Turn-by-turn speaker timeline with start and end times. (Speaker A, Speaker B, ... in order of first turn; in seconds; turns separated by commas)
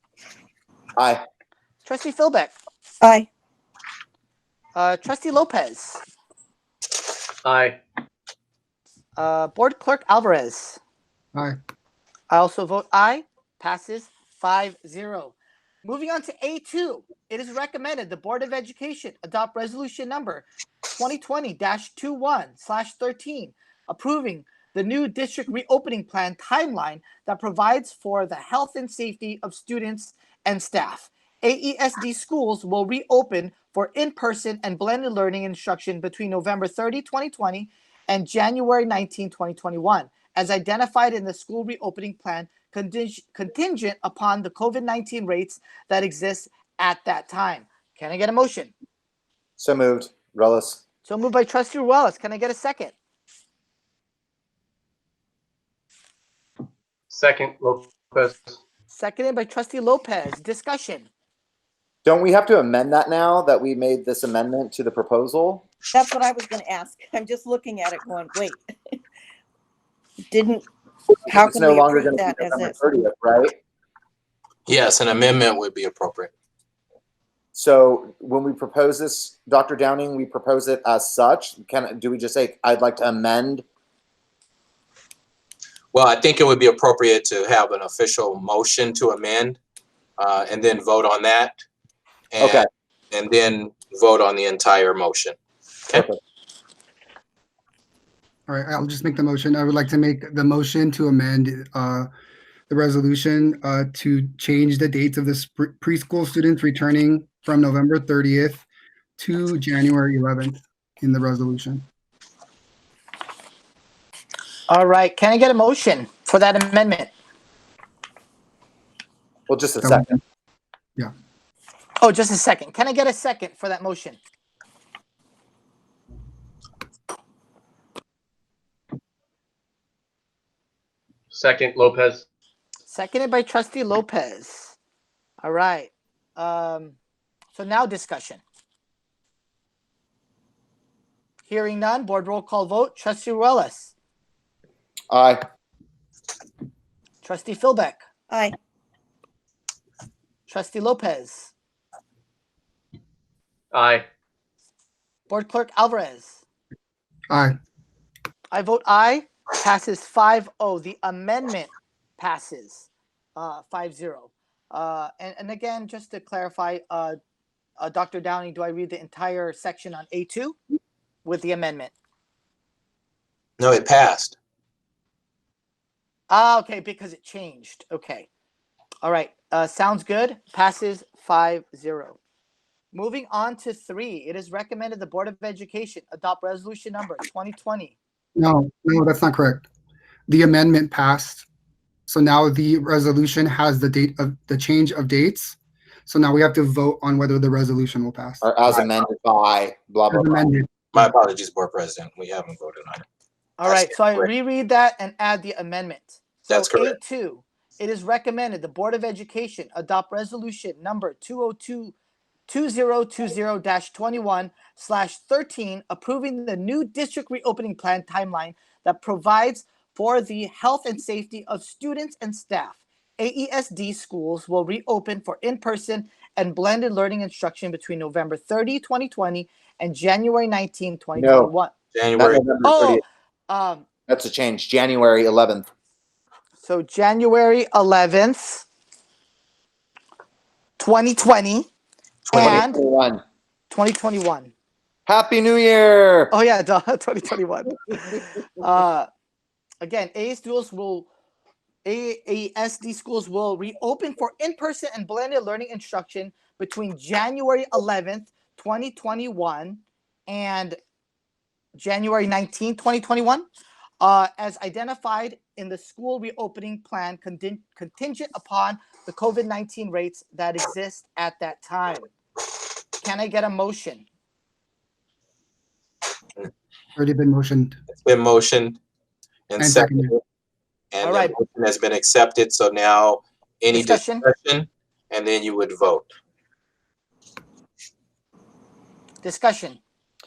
Speaker A: 1.0-1.2, Speaker B: 1.8-2.5, Speaker C: 3.0-3.3, Speaker B: 4.7-6.0, Speaker D: 7.4-7.8, Speaker B: 9.2-10.8, Speaker B: 12.3-48.7, Speaker A: 49.6-50.8, Speaker B: 51.0-52.9, Speaker D: 57.1-58.6, Speaker B: 58.9-61.1, Speaker A: 62.0-65.7, Speaker C: 65.9-68.6, Speaker C: 70.3-70.7, Speaker C: 71.3-72.8, Speaker A: 71.3-73.6, Speaker E: 74.7-76.3, Speaker A: 77.5-83.6, Speaker E: 85.9-89.6, Speaker E: 90.2-91.6, Speaker E: 92.3-95.3, Speaker A: 92.4-92.6, Speaker F: 98.5-102.1, Speaker F: 102.7-108.6, Speaker F: 109.2-111.8, Speaker B: 114.7-117.1, Speaker A: 119.5-120.1, Speaker F: 119.8-120.2, Speaker B: 122.0-124.2, Speaker D: 131.3-132.2, Speaker B: 132.9-134.7, Speaker B: 135.4-136.9, Speaker B: 137.5-138.4, Speaker B: 141.5-143.9, Speaker A: 145.1-145.4, Speaker B: 147.2-148.0, Speaker C: 148.3-148.6, Speaker B: 150.5-151.5, Speaker D: 153.7-154.0, Speaker B: 155.3-156.4, Speaker B: 158.5-167.2, Speaker B: 167.8-170.6, Speaker B: 171.2-171.9, Speaker E: 173.6-174.3, Speaker B: 176.3-178.3, Speaker B: 179.0-182.2, Speaker B: 182.9-187.9, Speaker F: 188.4-189.6, Speaker F: 190.3-191.4, Speaker F: 192.1-198.9, Speaker A: 198.4-200.5, Speaker F: 200.1-201.1, Speaker E: 200.9-203.0, Speaker B: 203.6-211.9, Speaker E: 203.6-204.3, Speaker E: 206.5-206.9, Speaker B: 212.5-231.7, Speaker A: 231.2-231.5, Speaker E: 231.9-232.4, Speaker A: 232.2-233.0, Speaker B: 232.6-233.8, Speaker A: 234.1-235.7, Speaker B: 236.6-238.7, Speaker B: 240.8-241.7, Speaker E: 242.3-242.6, Speaker B: 242.3-242.8, Speaker A: 242.3-243.2, Speaker B: 243.7-244.5, Speaker A: 245.1-246.3, Speaker B: 246.3-249.1, Speaker B: 249.8-251.1, Speaker B: 251.8-260.8, Speaker B: 261.7-263.4, Speaker B: 264.0-272.1, Speaker B: 273.0-274.0, Speaker F: 276.9-277.8, Speaker E: 277.9-278.8, Speaker E: 279.5-280.2, Speaker F: 279.6-280.1, Speaker E: 280.9-286.1, Speaker B: 281.0-281.3, Speaker B: 283.7-284.2, Speaker B: 289.2-289.8